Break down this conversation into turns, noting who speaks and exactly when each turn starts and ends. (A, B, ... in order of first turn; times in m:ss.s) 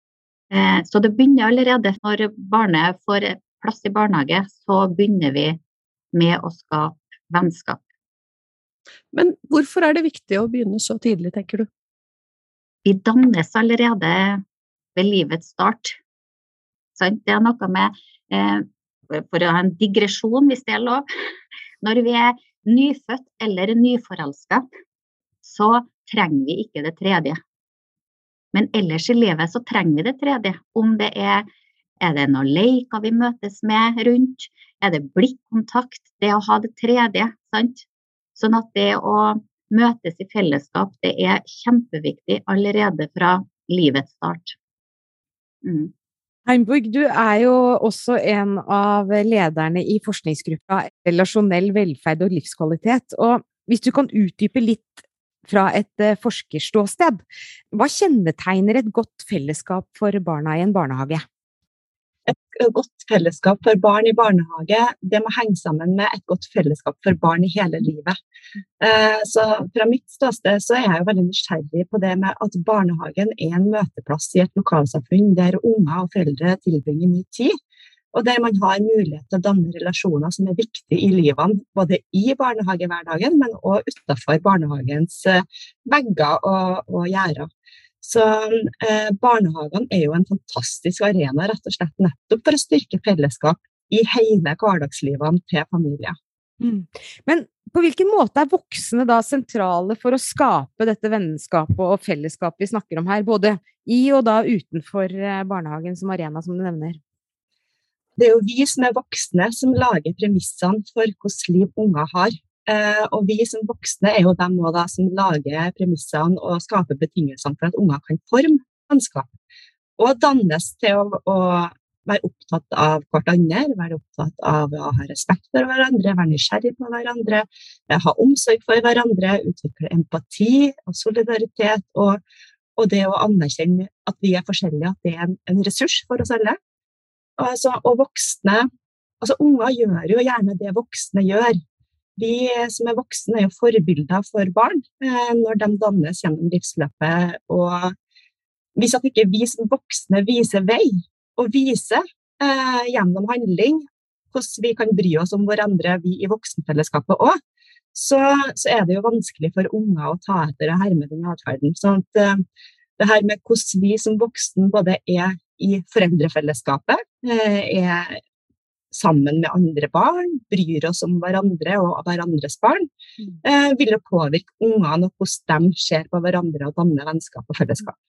0:00.5-0:05.6 A
0:06.1-0:07.8 A
0:09.1-0:11.7 B
0:12.8-0:14.4 A
0:15.0-0:16.0 A
0:17.0-0:21.0 A
0:21.8-0:24.6 A
0:25.4-0:27.4 A
0:28.5-0:31.4 A
0:32.0-0:44.6 A
0:45.6-0:45.9 A
0:46.4-1:01.2 C
1:02.3-1:08.2 D
1:08.8-1:17.5 D
1:18.1-1:27.5 D
1:28.0-1:36.2 D
1:36.6-1:47.0 C
1:48.2-1:59.3 D
2:00.0-2:12.2 D
2:12.8-2:16.6 D
2:17.4-2:18.7 D
2:19.2-2:21.6 D
2:22.2-2:27.9 D
2:28.8-2:37.4 D
2:37.9-2:42.4 D
2:43.0-2:48.2 D
2:48.9-2:52.9 D
2:53.4-2:57.9 D